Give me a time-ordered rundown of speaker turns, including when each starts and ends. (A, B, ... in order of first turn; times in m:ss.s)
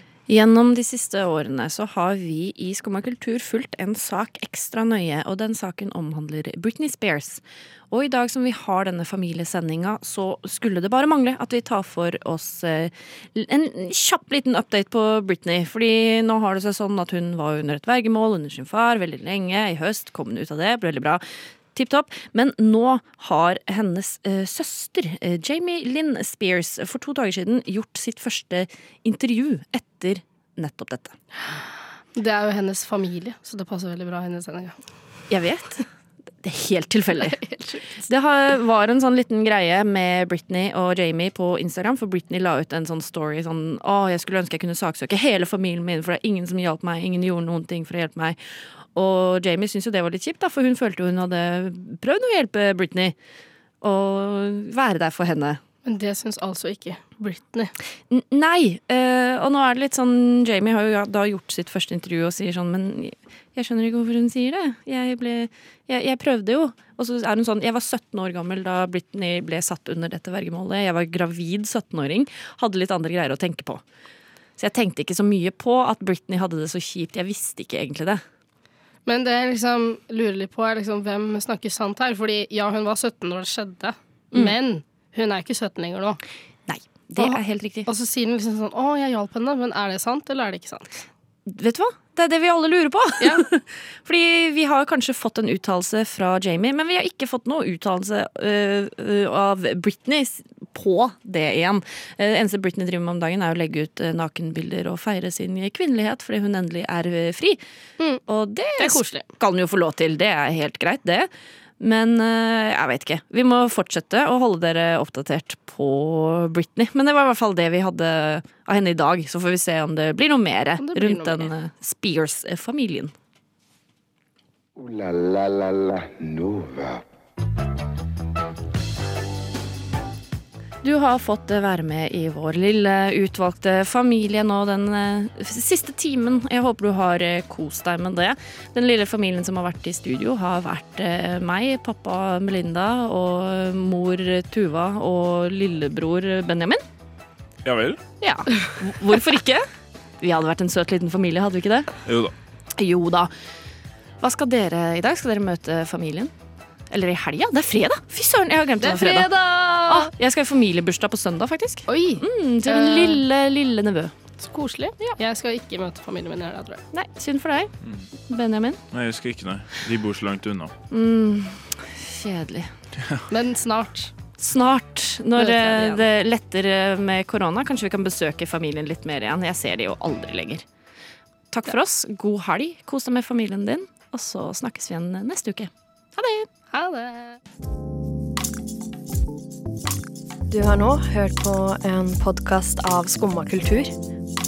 0:00.3-0:21.2 A
0:21.8-0:31.1 A
0:32.2-0:34.8 B
0:35.3-0:35.8 A
0:36.4-0:37.4 A
0:37.2-0:38.0 B
0:38.1-0:48.4 A
0:49.0-0:53.1 A
0:53.8-0:55.6 A
0:55.8-0:57.7 B
0:58.1-1:13.8 A
1:14.6-1:18.2 A
1:19.1-1:26.2 B
1:26.7-1:27.9 A
1:27.2-1:30.9 B
1:31.5-1:47.6 A
1:33.2-1:33.4 B
1:48.3-1:51.3 A
1:48.8-1:49.3 B
1:51.8-2:03.1 A
2:00.8-2:01.5 B
2:04.8-2:07.0 C
2:10.8-2:26.8 A
2:27.6-2:28.0 D
2:28.2-2:29.7 A
2:30.2-2:31.9 A
2:32.1-2:32.3 D
2:32.8-2:33.3 A
2:34.2-2:36.3 A
2:36.9-2:39.3 A
2:38.8-2:40.1 B
2:39.8-2:44.1 A
2:41.9-2:43.2 B
2:44.4-2:46.8 B
2:46.9-2:47.7 A
2:48.3-2:48.8 A
2:48.9-2:50.7 D
2:50.9-2:52.7 A
2:53.3-2:54.1 B
2:54.4-3:00.6 A
2:55.4-2:56.1 B
3:01.5-3:06.5 A
3:06.7-3:07.4 B
3:10.5-3:13.9 E